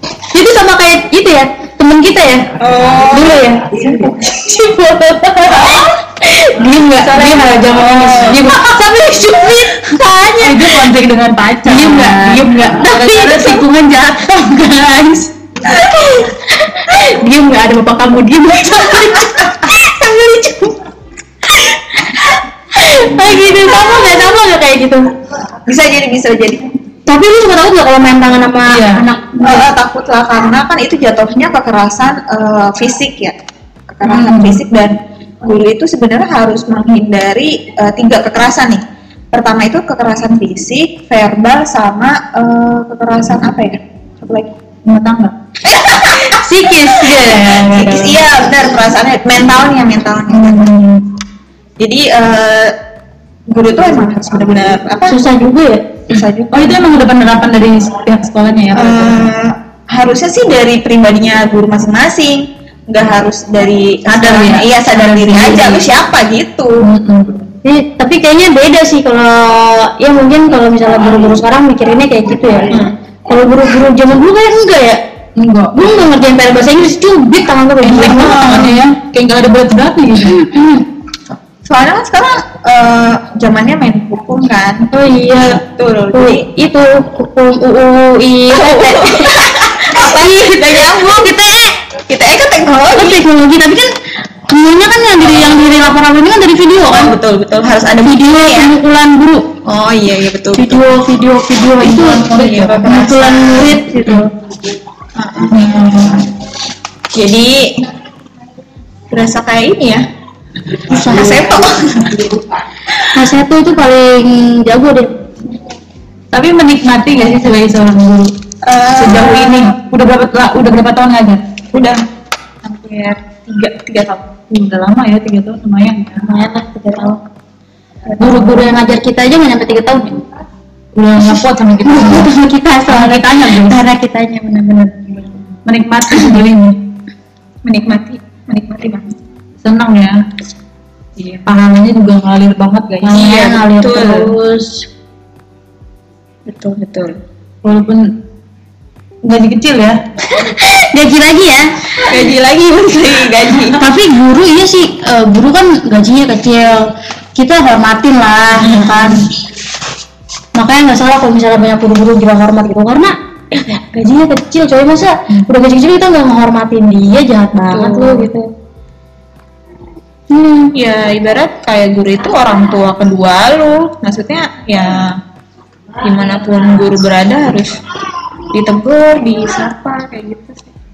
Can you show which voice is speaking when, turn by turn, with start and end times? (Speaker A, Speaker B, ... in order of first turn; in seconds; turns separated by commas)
Speaker A: 0.3-2.5, Speaker B: 2.6-3.5, Speaker A: 3.1-10.8, Speaker B: 5.5-5.9, Speaker C: 6.7-9.1, Speaker C: 9.9-15.3, Speaker A: 11.7-14.3, Speaker A: 15.7-20.8, Speaker A: 22.8-25.1, Speaker B: 25.7-26.7, Speaker A: 27.1-29.7, Speaker C: 28.7-29.0, Speaker B: 29.4-33.4, Speaker B: 33.9-44.5, Speaker C: 34.1-34.6, Speaker C: 44.9-45.3, Speaker B: 45.6-50.7, Speaker A: 46.3-48.2, Speaker C: 50.4-50.9, Speaker B: 51.8-52.8, Speaker B: 53.5-55.2, Speaker A: 55.1-55.9, Speaker B: 56.1-56.8, Speaker C: 56.5-59.3, Speaker B: 58.7-66.8, Speaker C: 64.1-65.9, Speaker C: 66.8-67.4, Speaker A: 67.7-72.8, Speaker B: 72.7-73.0, Speaker A: 73.3-75.0, Speaker C: 75.4-76.0, Speaker A: 75.8-78.8, Speaker C: 77.8-80.5, Speaker B: 78.2-78.7, Speaker A: 80.3-80.8, Speaker B: 81.7-84.9, Speaker A: 84.9-85.6, Speaker B: 85.4-86.5, Speaker A: 86.1-91.8, Speaker B: 88.5-91.3, Speaker B: 92.1-93.2, Speaker A: 93.0-93.9, Speaker A: 94.5-97.2, Speaker B: 96.8-98.7, Speaker A: 98.0-99.5, Speaker B: 99.7-100.9, Speaker A: 100.5-104.3, Speaker B: 101.9-103.8, Speaker C: 101.9-102.8, Speaker B: 105.2-105.9, Speaker C: 105.5-106.2, Speaker B: 107.1-107.8, Speaker B: 109.1-110.0, Speaker A: 110.9-111.4, Speaker B: 111.1-112.4, Speaker A: 113.0-115.2, Speaker C: 116.3-118.3, Speaker B: 118.6-119.8, Speaker C: 119.0-121.4, Speaker B: 121.7-122.0, Speaker B: 122.6-124.3, Speaker C: 124.5-126.3, Speaker A: 126.2-127.2, Speaker A: 128.2-130.2, Speaker C: 128.3-128.6, Speaker C: 130.9-132.3, Speaker A: 131.8-135.2, Speaker C: 132.9-133.8, Speaker C: 135.7-136.8, Speaker B: 137.7-139.2, Speaker C: 139.6-140.2, Speaker B: 141.2-141.4, Speaker C: 141.5-143.5, Speaker A: 143.0-144.9, Speaker B: 143.1-144.3, Speaker B: 146.5-147.2, Speaker C: 147.6-148.1, Speaker C: 149.2-150.0, Speaker A: 150.3-152.1, Speaker B: 152.0-153.8, Speaker A: 153.8-159.3, Speaker B: 158.6-159.2, Speaker A: 160.6-168.5, Speaker B: 167.7-168.3, Speaker A: 170.3-170.7, Speaker B: 170.8-175.2, Speaker B: 176.0-177.8, Speaker B: 178.5-180.7